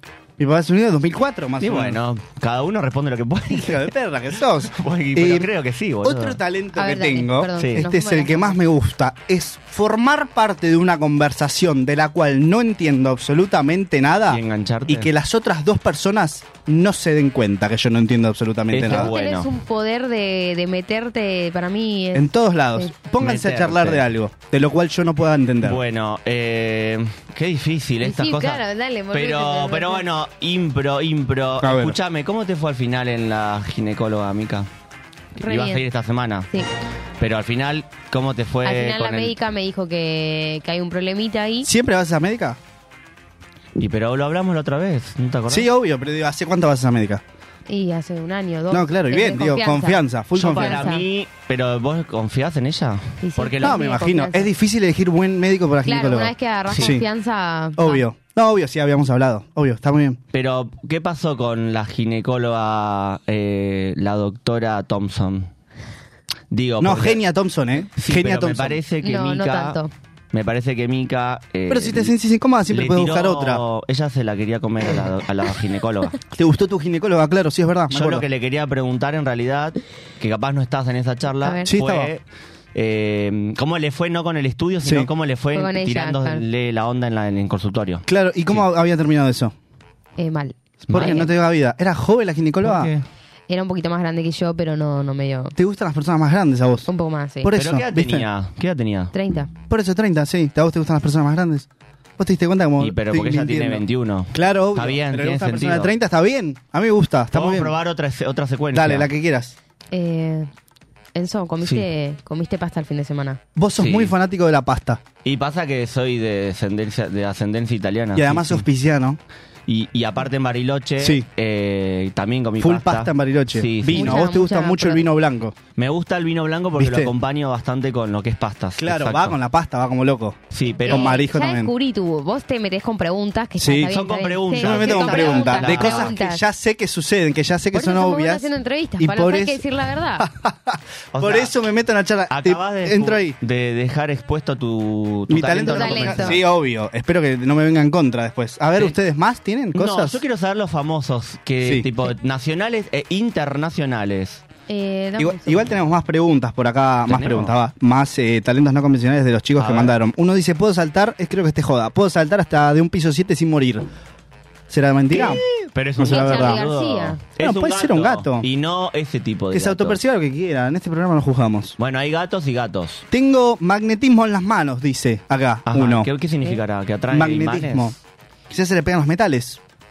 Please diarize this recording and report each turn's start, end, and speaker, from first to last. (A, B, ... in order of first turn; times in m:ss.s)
0:00.4-0:02.0 A
0:01.6-0:03.9 B
0:03.5-0:05.5 A
0:04.6-0:06.4 B
0:06.0-0:19.1 A
0:06.8-0:08.6 C
0:07.6-0:07.9 B
0:14.3-0:15.1 B
0:18.7-0:19.5 B
0:18.8-0:22.9 C
0:22.1-0:25.8 A
0:23.2-0:24.0 B
0:25.6-0:34.7 B
0:28.0-0:30.0 C
0:31.6-0:32.0 A
0:35.4-0:36.5 B
0:35.4-0:35.8 C
0:37.2-0:39.4 B
0:38.6-0:41.7 C
0:41.6-0:42.6 A
0:43.8-0:45.7 B
0:45.5-0:47.2 A
0:47.7-0:51.0 C
0:48.7-0:50.9 A
0:50.4-0:53.8 B
0:53.2-0:54.5 C
0:53.6-0:57.1 A
0:55.8-0:58.0 C
0:56.7-0:57.0 B
0:57.8-1:00.2 A
1:00.3-1:05.5 B
1:06.5-1:07.2 B
1:06.8-1:08.8 A
1:08.0-1:09.8 B
1:09.0-1:09.9 C
1:10.3-1:12.1 B
1:11.7-1:13.6 A
1:12.7-1:16.2 B
1:16.3-1:18.2 A
1:17.9-1:22.2 B
1:21.4-1:21.7 C
1:21.7-1:22.1 A
1:22.7-1:28.6 B
1:24.8-1:25.1 A
1:25.5-1:26.4 C
1:28.1-1:29.5 A
1:30.2-1:31.3 C
1:30.9-1:31.3 B
1:30.9-1:32.9 A
1:32.6-1:33.0 B
1:33.5-1:35.6 C
1:35.6-1:36.9 A
1:36.9-1:37.5 C
1:37.4-1:38.3 A
1:37.5-1:39.1 B
1:39.1-1:39.5 C
1:39.7-1:41.7 A
1:42.2-1:47.8 A
1:42.8-1:45.9 B
1:47.3-1:49.1 B
1:48.7-1:49.6 A
1:49.9-1:50.5 C
1:51.2-1:53.4 C
1:51.6-1:51.9 B
1:53.6-1:55.0 A
1:53.8-1:54.1 B
1:55.2-1:58.6 B
1:58.2-1:59.2 A
1:59.7-2:04.3 B
2:01.0-2:01.3 A
2:02.6-2:05.6 A
2:03.9-2:05.0 C
2:05.8-2:09.4 B
2:06.8-2:07.1 A
2:08.8-2:11.7 A
2:10.5-2:11.2 B
2:10.8-2:16.4 C
2:13.6-2:14.0 A
2:13.9-2:16.2 B
2:14.6-2:19.6 A
2:17.7-2:20.3 C
2:20.2-2:23.4 A
2:21.1-2:21.5 B
2:22.3-2:26.4 B
2:25.3-2:30.2 A
2:25.6-2:26.4 C
2:29.7-2:34.4 B
2:31.6-2:31.9 A
2:34.7-2:35.7 C
2:35.2-2:43.9 A
2:37.1-2:37.5 B
2:39.6-2:40.0 B
2:44.7-2:45.4 A
2:45.1-2:50.0 B
2:46.0-2:46.6 A
2:46.0-2:47.2 C
2:47.4-2:48.5 A
2:49.5-2:51.8 A
2:51.8-2:53.0 B
2:53.1-2:56.1 A
2:55.7-2:58.0 B
2:57.1-2:58.0 A
2:58.5-2:59.6 A